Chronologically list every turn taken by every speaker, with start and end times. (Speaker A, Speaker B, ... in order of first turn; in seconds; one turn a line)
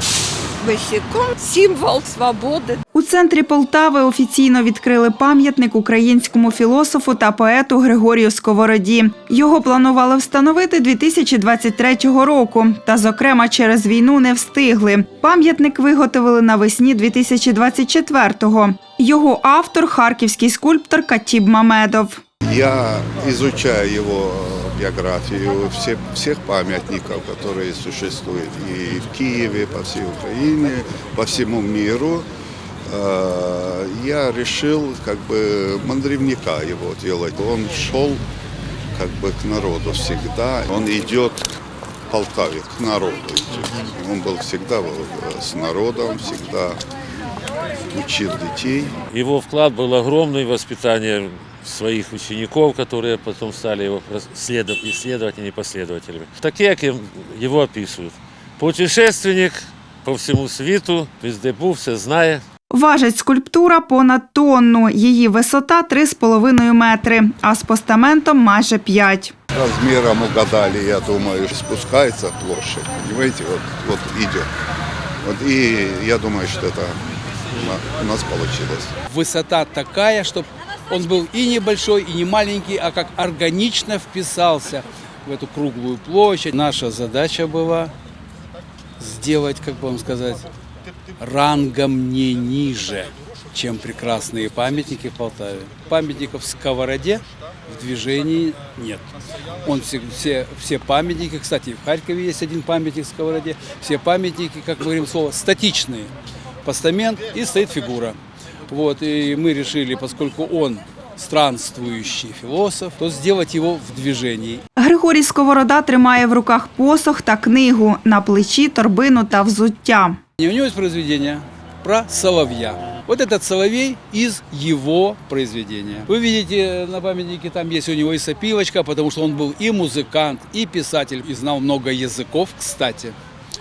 Speaker A: 0.5-2.8
Speaker B: 2.9-22.2
Speaker C: 22.4-32.3
Speaker C: 32.9-38.2
Speaker C: 38.9-41.5
Speaker C: 42.1-46.8
Speaker C: 47.9-48.9
Speaker D: 49.1-62.4
Speaker B: 62.7-69.3
Speaker C: 69.5-74.5
Speaker C: 75.2-77.0
Speaker C: 77.5-78.9
Speaker E: 79.1-87.9
Speaker E: 89.0-90.5
Speaker E: 91.2-99.1
Speaker E: 99.6-106.1
Speaker E: 106.6-108.2
Speaker E: 108.7-114.6
Speaker B: 114.8-120.2
Speaker E: 120.4-133.2